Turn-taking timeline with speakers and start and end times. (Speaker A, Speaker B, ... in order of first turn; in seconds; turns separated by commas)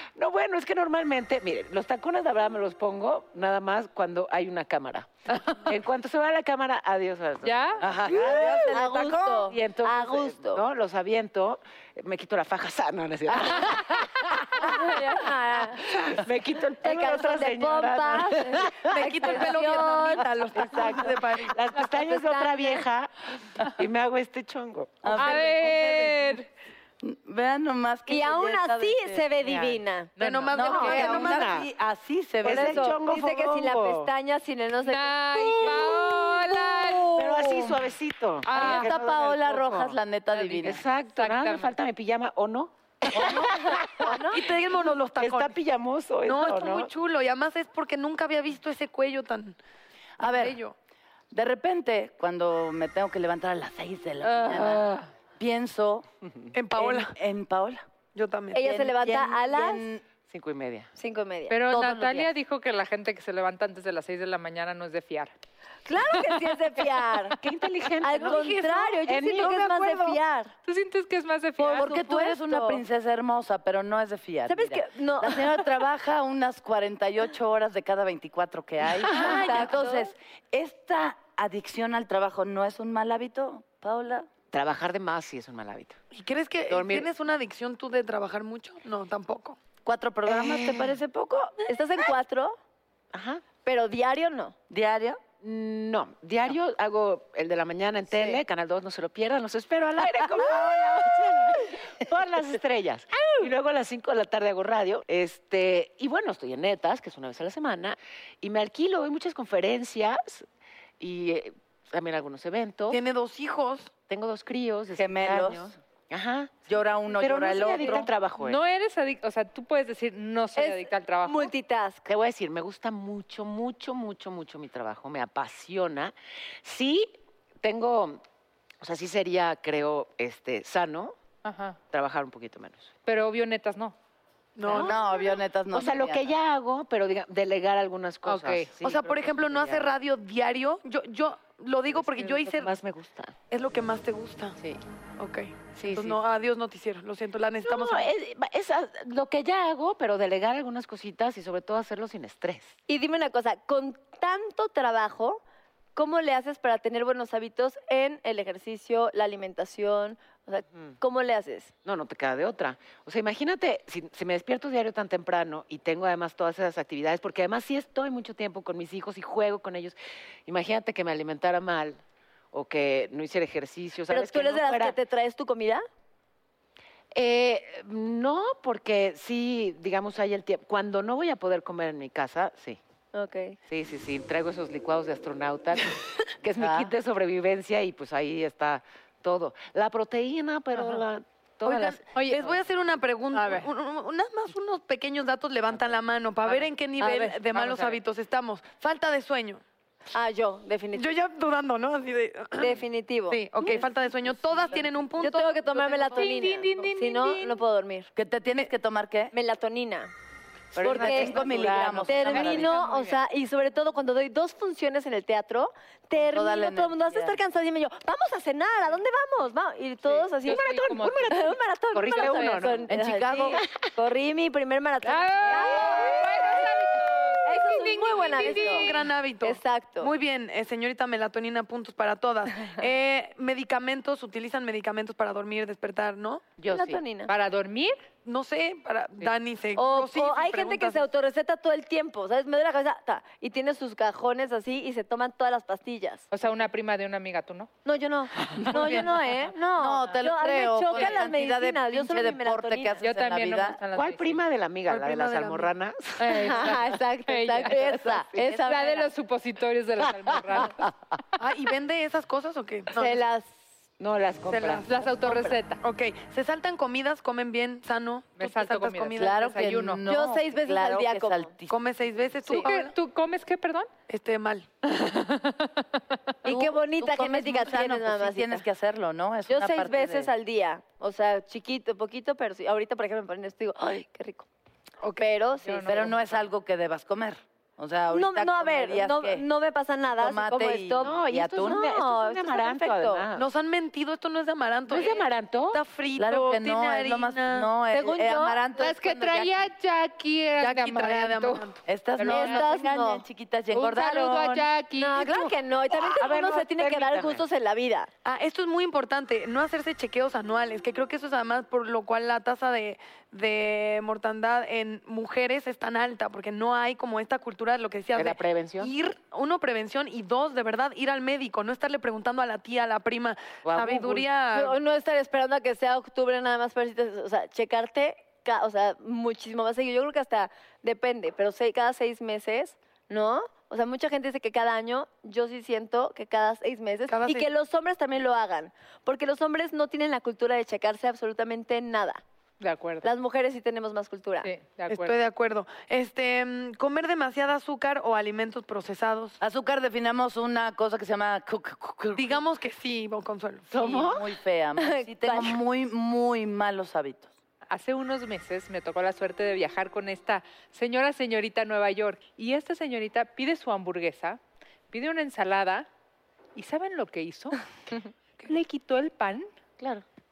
Speaker A: 0.1-8.7, Speaker B: 7.4-7.8, Speaker C: 7.8-9.5, Speaker D: 8.1-10.6, Speaker A: 9.5-14.8, Speaker D: 14.6-15.9, Speaker A: 15.8-19.4, Speaker D: 16.8-20.7, Speaker E: 18.9-21.5, Speaker A: 20.5-25.3, Speaker D: 21.8-22.8, Speaker C: 25.0-26.3, Speaker B: 25.1-26.5, Speaker C: 27.0-29.2, Speaker D: 28.1-31.2, Speaker A: 29.4-29.8, Speaker B: 30.2-31.1, Speaker E: 30.2-31.4, Speaker C: 30.5-33.0, Speaker A: 30.8-31.7, Speaker A: 32.4-34.1, Speaker D: 32.5-36.2, Speaker B: 34.8-37.2, Speaker C: 35.6-36.6, Speaker A: 37.1-40.0, Speaker C: 37.2-37.7, Speaker B: 38.5-38.9, Speaker C: 38.5-40.8, Speaker B: 40.3-41.7, Speaker A: 40.6-44.1, Speaker C: 43.1-43.8, Speaker D: 43.6-44.6, Speaker E: 44.2-45.6, Speaker A: 45.2-46.9, Speaker E: 46.2-49.6, Speaker C: 50.2-50.6, Speaker E: 50.2-50.7, Speaker C: 51.3-54.8, Speaker A: 54.5-55.1, Speaker C: 55.4-56.0, Speaker E: 56.5-57.1, Speaker C: 56.8-57.8, Speaker E: 58.1-58.7, Speaker D: 58.5-59.9, Speaker C: 58.6-60.0, Speaker A: 60.3-60.9, Speaker D: 61.0-61.6, Speaker B: 61.5-65.3, Speaker C: 61.7-62.3, Speaker D: 65.8-67.4, Speaker A: 67.4-70.2, Speaker D: 68.0-70.5, Speaker B: 70.6-72.0, Speaker C: 71.6-84.3, Speaker D: 71.7-72.8, Speaker D: 74.5-75.7, Speaker D: 79.0-80.1, Speaker A: 84.5-86.0, Speaker E: 86.1-89.6, Speaker A: 86.7-87.1, Speaker C: 89.8-91.5, Speaker A: 90.3-91.0, Speaker D: 91.7-92.6, Speaker A: 93.1-93.4, Speaker D: 93.6-94.5, Speaker C: 94.7-95.2, Speaker A: 95.4-110.5, Speaker A: 111.0-113.0, Speaker E: 112.9-113.9, Speaker A: 114.1-116.5, Speaker C: 114.9-115.7, Speaker C: 116.7-118.1, Speaker A: 117.2-118.6, Speaker B: 118.4-121.5, Speaker D: 120.5-122.0, Speaker A: 122.0-128.2, Speaker A: 128.8-131.1, Speaker B: 131.4-131.8, Speaker A: 131.9-132.9, Speaker B: 133.1-133.9, Speaker E: 134.6-135.0, Speaker C: 134.7-136.4, Speaker A: 135.7-139.9, Speaker B: 138.2-138.7, Speaker E: 138.8-142.7, Speaker A: 141.9-143.4, Speaker E: 143.5-144.6, Speaker E: 145.2-148.1, Speaker A: 145.8-146.2, Speaker A: 147.6-152.8, Speaker D: 152.9-155.4, Speaker D: 155.9-161.7, Speaker A: 161.8-172.0, Speaker A: 172.5-175.0, Speaker D: 174.1-175.8, Speaker A: 177.1-182.8, Speaker D: 183.1-183.6, Speaker A: 183.7-192.0, Speaker C: 186.6-186.9, Speaker B: 190.8-191.0, Speaker E: 191.6-199.6, Speaker B: 192.1-192.5, Speaker B: 193.3-193.7, Speaker A: 195.7-195.9, Speaker B: 196.4-198.0, Speaker D: 200.1-201.1, Speaker E: 200.9-207.5, Speaker D: 202.6-203.4, Speaker A: 203.6-204.9, Speaker D: 205.2-208.1, Speaker B: 206.1-207.3, Speaker C: 208.1-209.3, Speaker D: 209.3-210.1, Speaker A: 210.7-212.7, Speaker C: 210.8-212.7, Speaker D: 210.8-211.5, Speaker D: 212.1-220.7, Speaker B: 212.3-213.2, Speaker C: 216.1-217.4, Speaker B: 220.1-221.5, Speaker A: 220.4-223.8, Speaker D: 221.2-226.4, Speaker B: 222.2-222.6, Speaker B: 225.0-229.1, Speaker E: 226.0-226.6, Speaker D: 227.4-230.1, Speaker E: 228.4-236.4, Speaker A: 236.6-237.0, Speaker D: 236.7-237.3, Speaker B: 237.3-238.0, Speaker E: 238.2-241.1, Speaker D: 239.7-246.2, Speaker B: 246.3-247.7, Speaker D: 247.8-253.0, Speaker B: 248.7-249.1, Speaker C: 249.8-253.8, Speaker B: 253.0-254.4, Speaker A: 253.9-256.5, Speaker E: 254.9-255.7, Speaker B: 256.2-260.9, Speaker D: 256.3-259.1, Speaker C: 257.9-258.3, Speaker E: 261.4-263.2, Speaker D: 262.9-263.6, Speaker A: 264.0-264.9, Speaker E: 264.5-269.5, Speaker B: 264.9-265.8, Speaker B: 268.4-270.0, Speaker C: 269.1-271.8, Speaker D: 270.0-271.5, Speaker E: 271.7-272.9, Speaker B: 272.4-273.9, Speaker E: 274.1-274.7, Speaker B: 275.1-275.7, Speaker D: 276.4-278.6, Speaker C: 276.4-280.3, Speaker D: 279.5-284.4, Speaker D: 285.2-286.1, Speaker B: 285.6-286.2, Speaker C: 285.8-289.4, Speaker D: 288.1-293.2, Speaker C: 290.1-291.8, Speaker A: 291.0-293.5, Speaker E: 293.4-297.7, Speaker A: 294.9-295.8, Speaker C: 296.1-299.7, Speaker D: 297.9-298.6, Speaker B: 298.7-301.6, Speaker E: 300.6-301.8, Speaker C: 301.8-304.7, Speaker B: 302.2-302.6, Speaker D: 302.2-303.2, Speaker B: 303.7-305.5, Speaker D: 305.0-308.1, Speaker A: 305.9-307.4, Speaker E: 308.2-324.8, Speaker A: 318.1-318.9, Speaker A: 323.6-324.3, Speaker D: 324.5-342.2, Speaker E: 337.1-337.5, Speaker B: 342.6-343.1, Speaker D: 343.0-344.5, Speaker B: 344.4-345.1, Speaker E: 344.9-349.4, Speaker C: 349.4-352.4, Speaker E: 352.1-354.0, Speaker A: 353.7-354.3, Speaker C: 353.8-357.3, Speaker D: 354.8-355.6, Speaker B: 357.7-364.4, Speaker B: 364.9-365.9, Speaker B: 366.5-367.6, Speaker B: 368.4-369.5, Speaker A: 369.8-370.0